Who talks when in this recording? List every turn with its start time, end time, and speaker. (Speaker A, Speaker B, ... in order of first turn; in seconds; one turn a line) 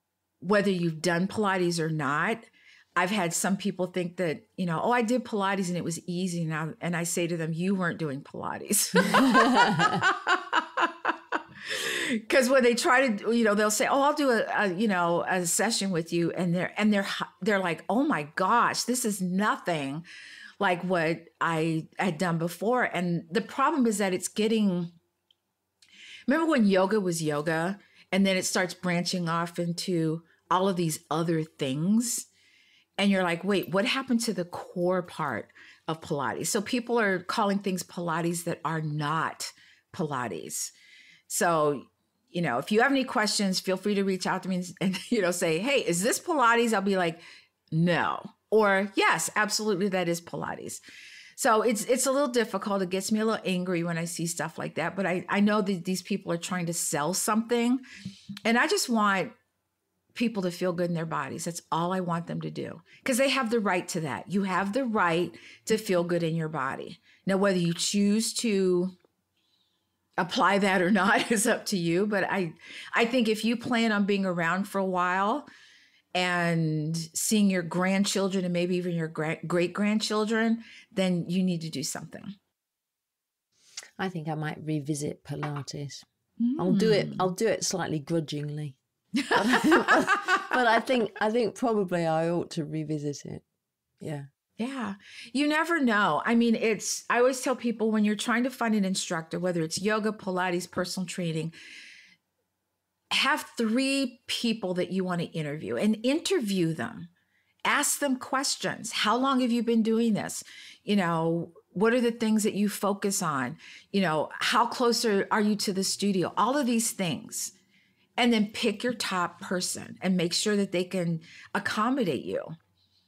Speaker A: 0.4-20.1
Speaker B: 9.1-10.0
Speaker A: 20.6-24.9
Speaker A: 26.3-32.3
Speaker A: 33.0-40.7
Speaker A: 41.3-50.8
Speaker A: 51.3-57.8
Speaker A: 58.4-59.3
Speaker A: 60.1-69.0
Speaker A: 70.2-75.5
Speaker A: 76.1-82.3
Speaker B: 84.0-86.0
Speaker A: 86.4-87.3
Speaker B: 86.6-88.8
Speaker A: 89.2-90.8
Speaker B: 89.3-93.4
Speaker B: 94.0-94.3
Speaker A: 94.6-101.5
Speaker A: 103.1-107.1
Speaker A: 107.6-117.5
Speaker A: 118.2-122.5